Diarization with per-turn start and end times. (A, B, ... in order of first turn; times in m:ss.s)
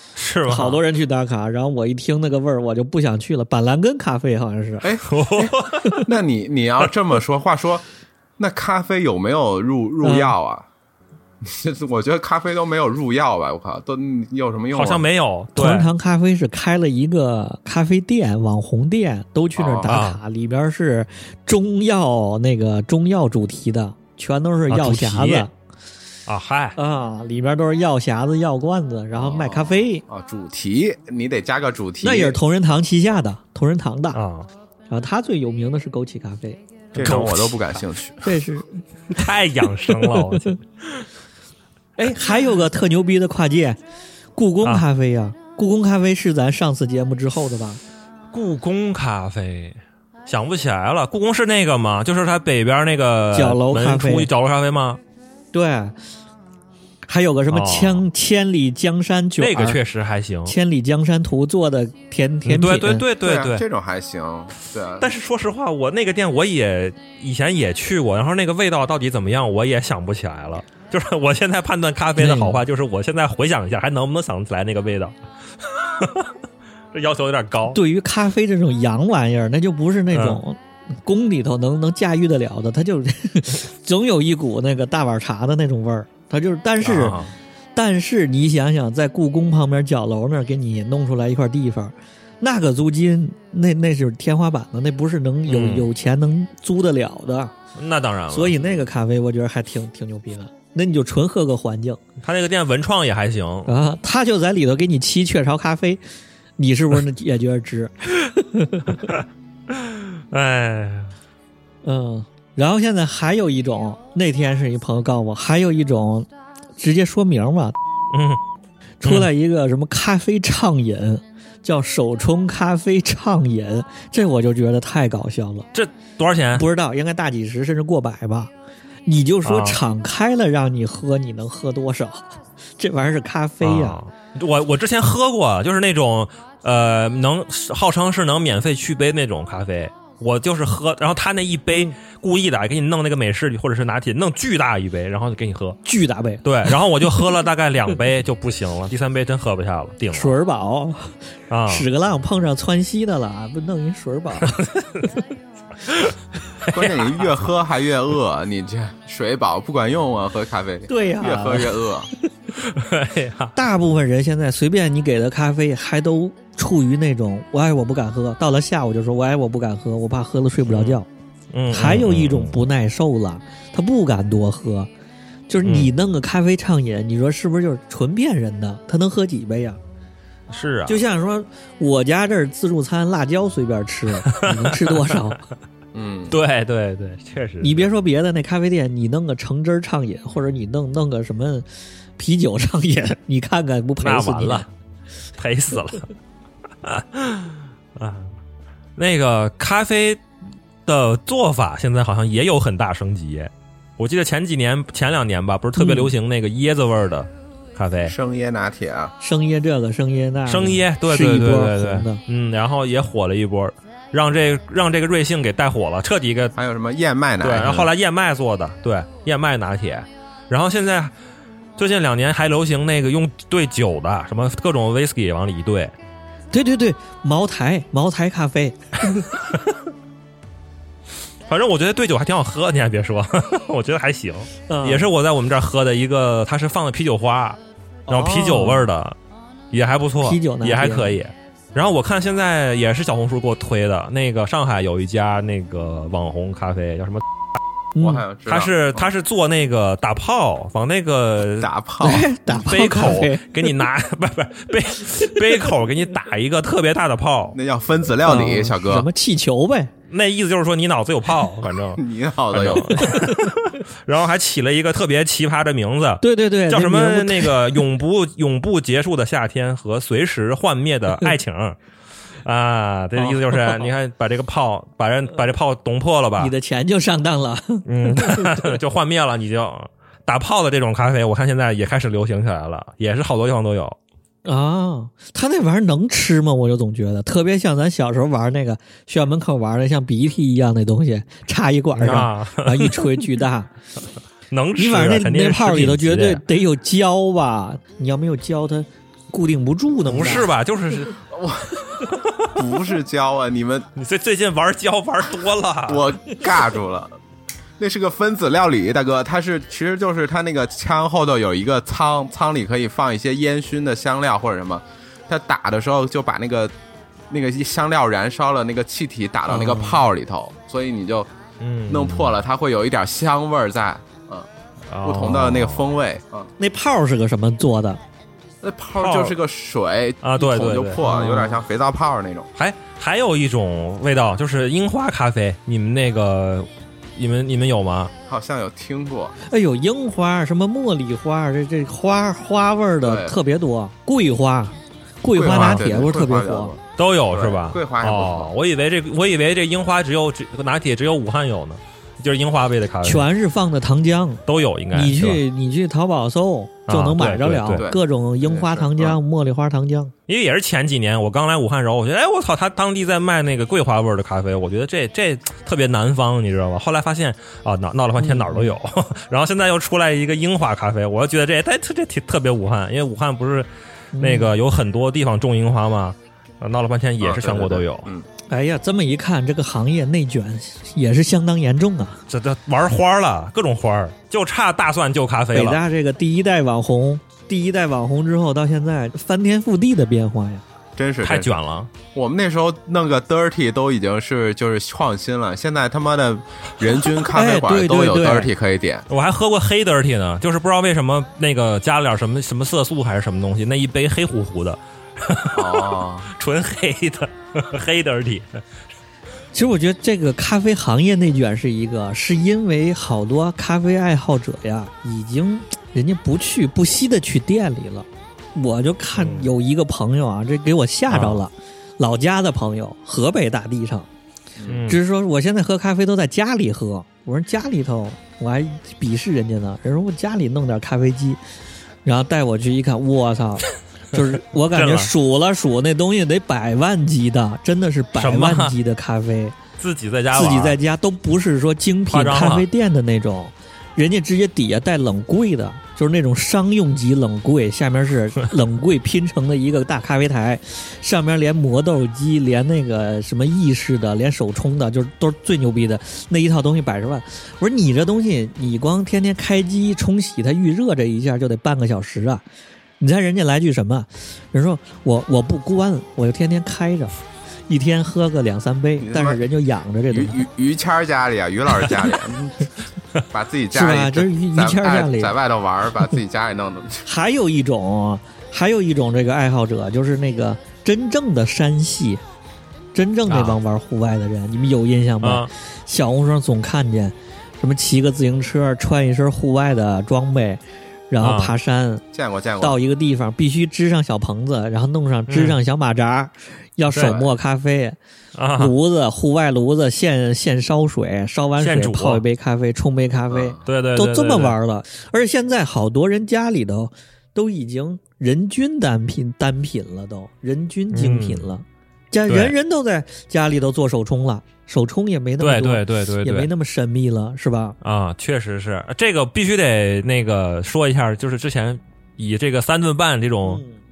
0:00.2-0:00.8 A
0:00.5-0:04.9 B
0:04.8-0:07.8 C
0:05.0-0:06.0 A
0:08.4-0:10.7 C
0:10.0-0:10.3 B
0:11.4-0:15.0 C
0:14.7-0:15.9 A
0:15.5-0:25.5 B
0:19.6-0:19.9 C
0:19.9-0:20.2 A
0:24.7-0:25.5 A
0:26.3-0:26.8 A
0:26.8-0:30.0 B
0:29.1-0:32.4 C
0:32.0-0:34.2 B
0:34.1-0:34.5 A
0:34.9-0:37.2 B
0:36.9-0:38.4 C
0:37.0-0:37.6 A
0:38.2-0:39.3 B
0:39.1-0:41.0 A
0:39.8-0:40.5 B
0:42.0-0:43.8 B
0:44.4-0:47.8 B
0:48.3-0:55.0 A
0:53.3-0:54.3 B
0:55.5-0:56.0 B
0:57.1-0:59.8 B
0:57.5-0:58.0 A
0:59.4-1:00.5 A
1:00.5-1:03.0 B
1:02.4-1:03.6 A
1:03.2-1:05.1 C
1:05.0-1:15.1 A
1:12.2-1:12.6 B
1:15.7-1:16.3 A
1:16.9-1:17.8 A
1:17.7-1:27.2 B
1:20.1-1:20.4 A
1:26.8-1:27.3 A
1:27.7-1:37.5 B
1:35.5-1:35.9 A
1:37.8-1:38.8 A
1:38.3-1:42.0 B
1:42.2-1:43.7 A
1:43.6-1:46.0 B
1:46.6-1:49.2 B
1:49.7-1:51.1 A
1:51.8-1:57.8 B
1:58.1-1:58.4 A
1:59.0-2:05.7 B
1:59.0-1:59.3 A
2:05.7-2:06.6 A
2:06.5-2:08.5 B
2:09.0-2:14.0 B
2:09.4-2:09.8 A
2:13.6-2:25.8 A
2:25.8-2:27.2 B
2:26.4-2:30.3 A
2:30.1-2:34.6 B
2:31.5-2:31.9 A
2:34.4-2:35.1 A
2:36.6-2:37.2 A
2:36.7-2:42.1 C
2:40.9-2:41.7 B
2:42.6-2:43.5 A
2:43.5-2:51.1 B
2:50.7-2:51.0 A
2:51.5-2:52.6 A
2:51.7-2:54.9 B
2:55.5-2:59.8 B
2:55.6-2:55.9 A
3:00.5-3:01.0 A
3:00.9-3:05.4 B
3:04.3-3:05.2 A
3:05.9-3:06.4 C
3:06.3-3:07.9 A
3:07.6-3:11.7 B
3:12.2-3:14.7 B
3:14.0-3:14.7 A
3:15.4-3:16.1 A
3:16.8-3:18.3 A
3:19.0-3:20.2 A
3:20.8-3:28.1 A
3:25.8-3:26.1 B
3:28.0-3:29.1 C
3:29.2-3:32.2 B
3:30.5-3:36.5 A
3:36.5-3:37.9 C
3:37.4-3:41.1 A
3:41.8-3:45.9 A
3:46.5-3:49.3 B
3:51.5-3:57.6 A
3:54.7-3:55.1 B
3:58.1-3:58.9 B
3:58.1-3:59.1 A
3:59.7-4:07.2 A
4:00.2-4:01.2 B
4:07.9-4:08.2 B
4:08.0-4:09.1 C
4:08.4-4:11.7 A
4:11.6-4:12.3 C
4:12.0-4:13.6 B
4:12.5-4:17.6 A
4:17.5-4:19.1 C
4:18.2-4:19.9 B
4:20.1-4:22.0 A
4:21.9-4:23.1 C
4:22.5-4:31.8 A
4:23.2-4:23.5 B
4:26.2-4:27.8 B
4:32.4-4:36.5 A
4:33.2-4:33.8 B
4:36.4-4:38.8 B
4:37.8-4:44.0 A
4:44.4-4:53.7 B
4:52.0-4:53.2 A
4:54.5-4:56.4 A
4:54.8-5:00.4 B
5:00.1-5:01.2 A
5:01.3-5:01.8 C
5:02.4-5:03.9 C
5:04.0-5:06.0 A
5:05.9-5:07.2 C
5:07.8-5:16.7 C
5:17.3-5:21.3 C
5:19.5-5:20.0 B
5:21.6-5:22.4 A
5:21.9-5:24.5 C
5:24.9-5:25.9 A
5:25.0-5:26.5 C
5:26.6-5:28.0 B
5:28.6-5:32.5 C
5:29.0-5:29.4 A
5:30.2-5:31.1 A
5:31.0-5:31.5 B
5:32.6-5:38.1 A
5:38.2-5:39.3 C
5:39.5-5:46.7 B
5:43.0-5:43.4 C
5:45.3-5:48.5 C
5:45.5-5:45.8 A
5:47.0-5:53.3 A
5:53.0-6:00.1 B
5:54.4-5:55.4 A
5:56.9-5:57.9 A
5:57.7-5:59.2 C
6:00.3-6:13.7 A
6:08.2-6:08.8 B
6:14.1-6:14.5 B
6:14.2-6:18.1 A
6:17.2-6:18.2 C
6:18.5-6:22.2 B
6:22.3-6:25.8 A
6:25.5-6:30.6 B
6:31.0-6:31.5 C
6:31.2-6:31.9 A
6:32.1-6:39.1 C
6:37.3-6:38.5 B
6:39.1-6:48.6 A
6:45.5-6:46.3 C
6:49.5-7:04.1 B
6:59.1-6:59.5 A
7:01.1-7:01.4 A
7:04.6-7:04.9 C
7:04.7-7:05.0 A
7:04.9-7:11.4 B
7:12.0-7:19.6 B
7:14.7-7:15.1 A
7:18.2-7:18.8 A
7:19.8-7:20.8 A
7:20.3-7:42.4 B
7:22.1-7:22.7 A
7:43.0-7:47.1 B
7:47.7-7:50.4 B
7:49.0-7:49.4 C
7:50.1-7:52.7 C
7:53.3-7:57.0 C
7:53.7-7:55.3 B
7:57.0-8:02.2 B
8:02.9-8:12.0 B
8:03.3-8:03.6 A
8:05.2-8:05.5 A
8:11.2-8:11.5 A
8:12.1-8:12.8 C
8:12.6-8:18.0 B
8:15.3-8:15.6 A
8:16.9-8:17.2 A
8:18.4-8:18.7 A
8:18.6-8:37.8 B
8:21.6-8:22.2 A
8:23.3-8:23.6 C
8:23.6-8:24.5 A
8:30.9-8:31.5 A
8:32.3-8:32.5 A
8:35.4-8:36.5 A
8:37.8-8:43.6 A
8:43.4-8:43.8 B